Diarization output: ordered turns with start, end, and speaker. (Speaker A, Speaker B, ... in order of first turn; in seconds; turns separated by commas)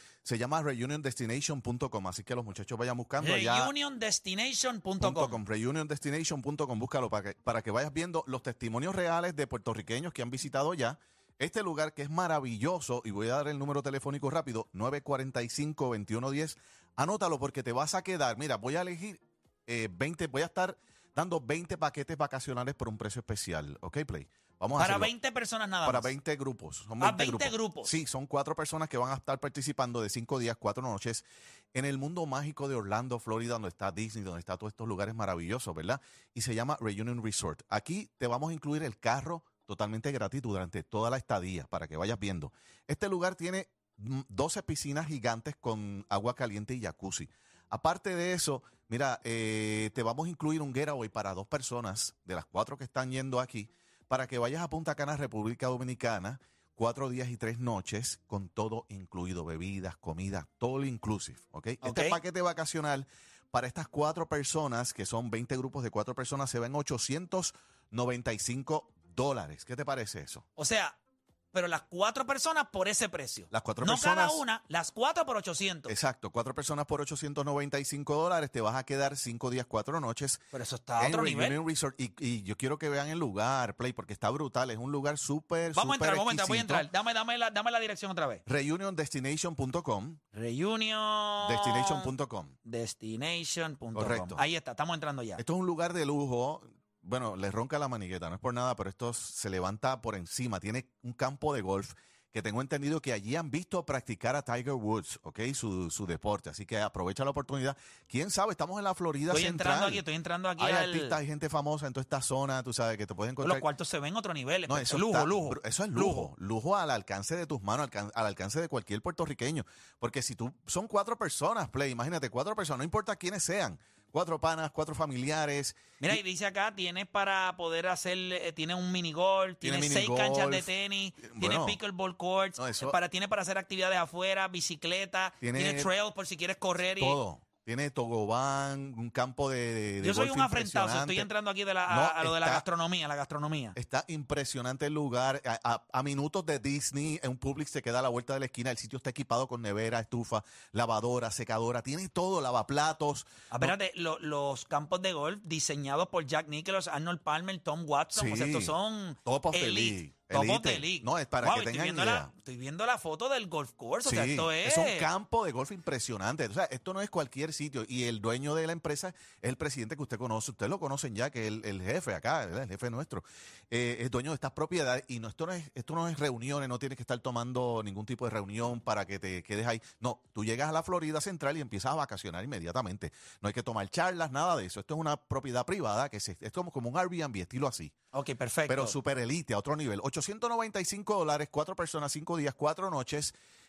Speaker A: 0.2-3.7, Speaker B: 3.2-5.4, Speaker A: 5.0-25.1, Speaker B: 24.8-26.1, Speaker A: 25.8-70.4, Speaker B: 27.0-27.9, Speaker B: 61.8-62.2, Speaker B: 70.5-71.0, Speaker B: 71.5-75.9, Speaker A: 73.5-74.4, Speaker A: 75.9-80.4, Speaker B: 80.5-81.6, Speaker A: 81.0-86.9, Speaker B: 85.7-88.4, Speaker A: 88.5-90.2, Speaker B: 90.3-92.1, Speaker A: 91.4-92.5, Speaker B: 92.6-95.4, Speaker A: 93.9-94.4, Speaker A: 95.4-110.0, Speaker B: 109.3-111.2, Speaker A: 110.6-113.7, Speaker B: 113.4-116.3, Speaker A: 114.7-126.1, Speaker B: 126.0-137.2, Speaker A: 129.6-131.8, Speaker A: 132.6-133.0, Speaker A: 135.4-135.9, Speaker A: 136.9-141.3, Speaker B: 140.0-143.8, Speaker A: 141.9-142.6, Speaker A: 143.7-153.7, Speaker B: 153.5-165.1, Speaker A: 158.1-162.3, Speaker A: 164.0-187.9, Speaker B: 188.1-189.0, Speaker A: 188.7-193.3